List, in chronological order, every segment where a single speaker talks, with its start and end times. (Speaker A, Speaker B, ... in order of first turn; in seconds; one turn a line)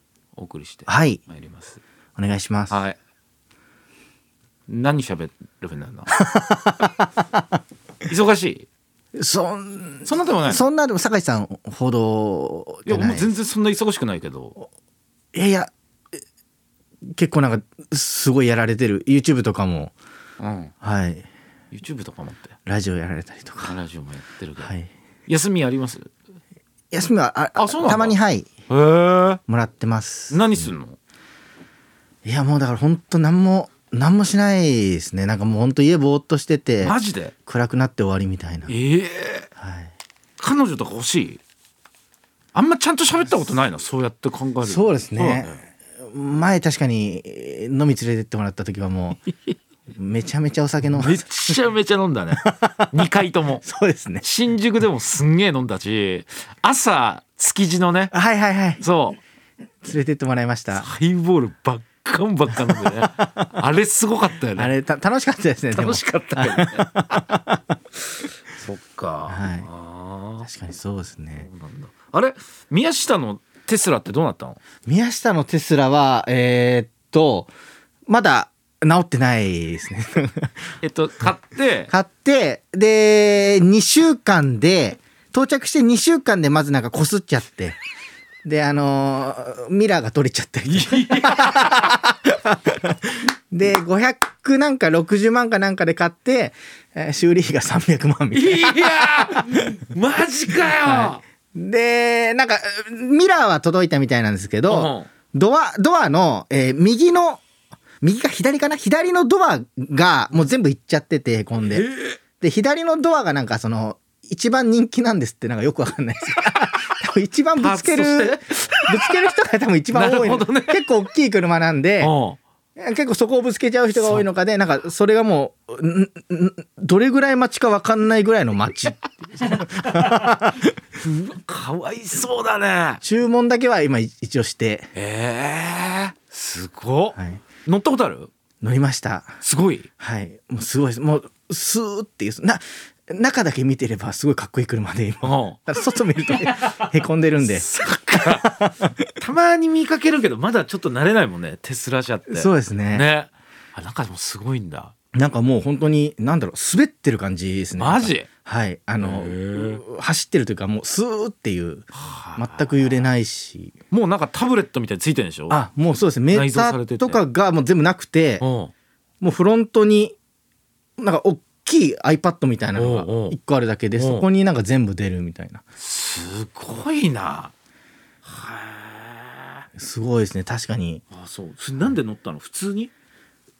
Speaker A: 0.3-1.8
Speaker B: 0.9-1.2
Speaker B: 2.2-2.8
Speaker A: 2.7-3.0
Speaker A: 4.7-6.1
Speaker B: 6.1-7.4
Speaker A: 8.1-8.7
Speaker B: 9.2-13.3
Speaker A: 10.1-10.7
Speaker A: 12.9-14.6
Speaker B: 15.3-15.7
Speaker B: 17.1-19.9
Speaker A: 20.4-20.7
Speaker B: 20.8-21.3
Speaker A: 21.7-22.6
Speaker B: 22.7-23.8
Speaker A: 23.6-24.7
Speaker B: 24.6-24.9
Speaker A: 25.3-26.1
Speaker B: 26.9-28.5
Speaker A: 27.6-28.2
Speaker A: 28.7-29.4
Speaker B: 29.5-30.7
Speaker A: 30.3-31.0
Speaker B: 32.2-38.7
Speaker A: 36.8-37.3
Speaker A: 38.7-39.5
Speaker B: 39.6-39.9
Speaker A: 40.4-41.4
Speaker A: 42.5-45.6
Speaker B: 44.6-49.2
Speaker B: 50.0-51.6
Speaker A: 51.0-53.6
Speaker B: 52.4-52.9
Speaker B: 53.6-54.2
Speaker A: 54.2-58.1
Speaker B: 58.1-58.8
Speaker A: 58.8-59.2
Speaker B: 59.8-60.9
Speaker A: 60.7-64.7
Speaker B: 62.5-63.5
Speaker B: 64.5-67.8
Speaker A: 65.7-67.4
Speaker A: 68.5-70.5
Speaker B: 69.3-69.7
Speaker B: 70.4-71.5
Speaker A: 71.4-74.6
Speaker B: 74.9-77.5
Speaker B: 78.1-80.6
Speaker A: 80.8-81.9
Speaker B: 81.9-87.8
Speaker B: 88.5-99.8
Speaker A: 90.7-92.0
Speaker A: 98.3-101.2
Speaker B: 100.7-107.4
Speaker A: 104.7-105.1
Speaker B: 108.0-111.9
Speaker A: 111.7-112.2
Speaker B: 112.4-122.1
Speaker A: 117.6-119.0
Speaker A: 119.9-120.8
Speaker A: 122.0-122.4
Speaker B: 122.8-130.7
Speaker A: 124.0-124.3
Speaker A: 129.4-130.1
Speaker A: 131.0-133.0
Speaker B: 133.0-134.9
Speaker A: 134.9-138.3
Speaker B: 137.2-137.4
Speaker B: 138.6-139.3
Speaker A: 139.4-139.9
Speaker B: 140.0-149.1
Speaker A: 145.2-145.6
Speaker A: 147.4-148.5
Speaker A: 149.2-154.9
Speaker B: 152.3-153.1
Speaker B: 155.1-163.8
Speaker A: 157.8-158.3
Speaker A: 159.0-159.8
Speaker A: 161.9-163.1
Speaker A: 163.9-165.6
Speaker B: 165.5-168.4
Speaker A: 166.3-167.2
Speaker A: 168.4-168.7
Speaker B: 169.2-170.2
Speaker B: 171.0-175.6
Speaker A: 172.8-173.4
Speaker A: 174.0-174.3
Speaker A: 175.8-177.5
Speaker A: 178.2-179.7
Speaker B: 179.8-181.0
Speaker A: 181.1-182.9